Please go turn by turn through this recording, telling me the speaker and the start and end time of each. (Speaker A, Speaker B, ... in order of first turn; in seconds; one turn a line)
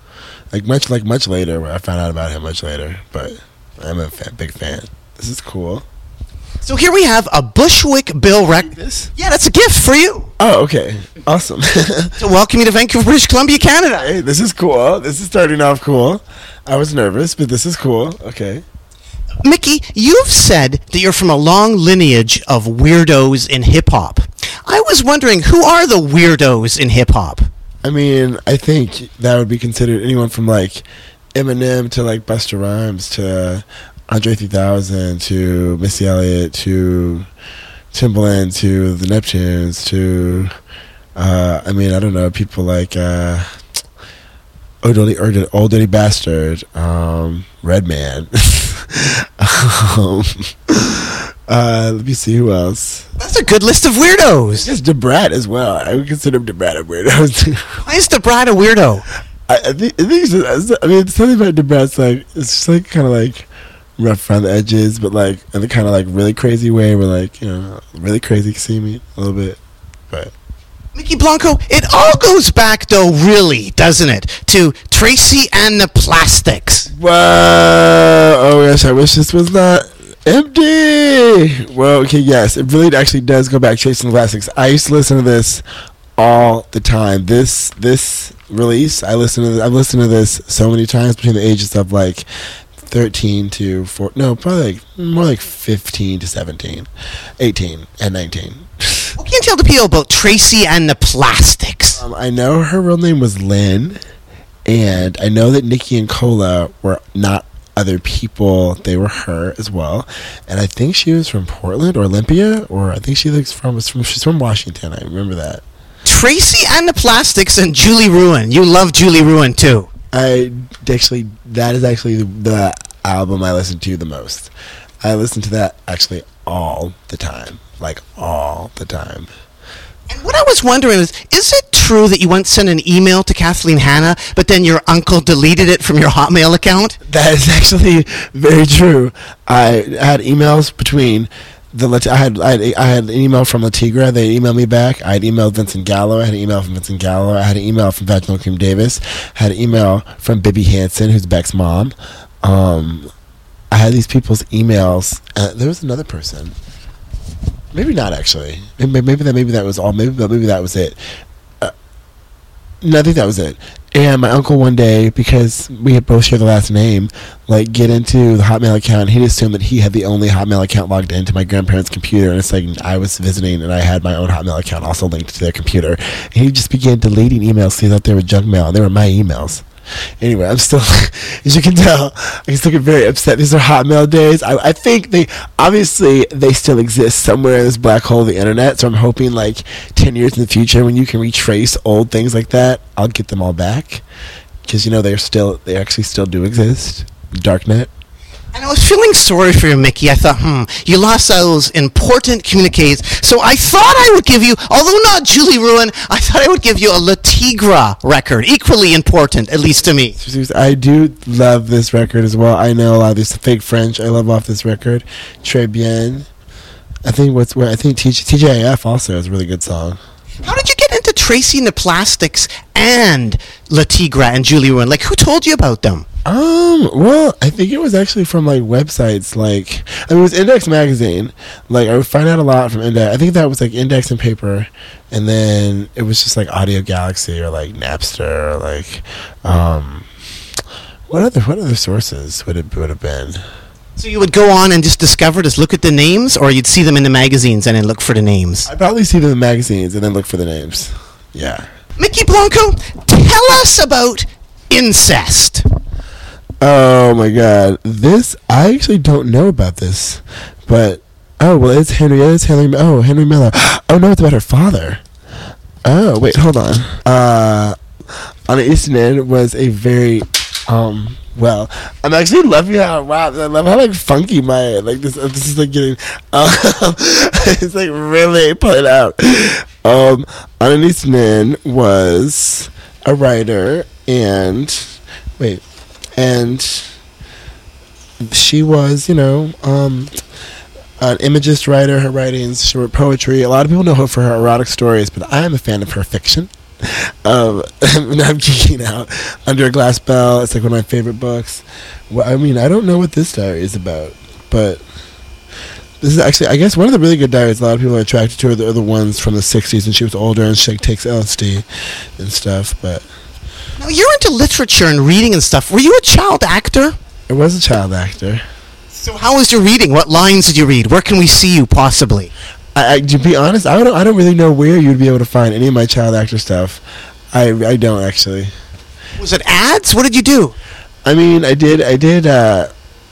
Speaker A: 0.5-5.8
Speaker B: 6.6-10.3
Speaker A: 8.7-9.1
Speaker A: 10.4-12.1
Speaker B: 12.2-14.1
Speaker A: 14.0-18.6
Speaker B: 19.4-27.5
Speaker A: 27.8-37.3
Speaker A: 37.9-40.5
Speaker A: 41.1-43.5
Speaker A: 44.8-53.1
Speaker B: 53.2-54.7
Speaker A: 54.6-57.8
Speaker B: 57.9-59.0
Speaker A: 59.5-69.6
Speaker B: 70.9-76.9
Speaker A: 76.9-85.6
Speaker A: 86.2-92.3
Speaker A: 92.8-96.9
Speaker A: 97.4-99.1
Speaker B: 99.2-102.0
Speaker A: 102.0-104.0
Speaker A: 104.7-115.6
Speaker B: 116.0-119.9
Speaker A: 120.1-124.5
Speaker A: 125.0-129.3
Speaker B: 130.1-136.9
Speaker A: 137.1-153.1
Speaker A: 153.7-156.5
Speaker A: 157.7-161.0
Speaker A: 162.8-179.6
Speaker A: 180.2-194.0
Speaker A: 194.7-197.9
Speaker B: 198.5-210.2
Speaker A: 210.2-216.3
Speaker A: 217.0-220.0
Speaker B: 220.4-226.1
Speaker A: 226.2-240.1
Speaker A: 241.1-243.4
Speaker B: 243.9-248.7
Speaker A: 248.7-251.7
Speaker B: 252.0-255.6
Speaker A: 256.6-265.0
Speaker A: 265.8-267.8
Speaker A: 268.5-285.6
Speaker A: 286.1-286.9
Speaker A: 288.2-290.1
Speaker A: 291.0-304.8
Speaker A: 306.0-311.6
Speaker A: 312.2-313.1
Speaker B: 313.8-317.0
Speaker A: 317.3-318.4
Speaker B: 318.9-322.3
Speaker A: 322.7-326.8
Speaker A: 327.3-328.5
Speaker B: 329.2-330.5
Speaker A: 331.0-332.7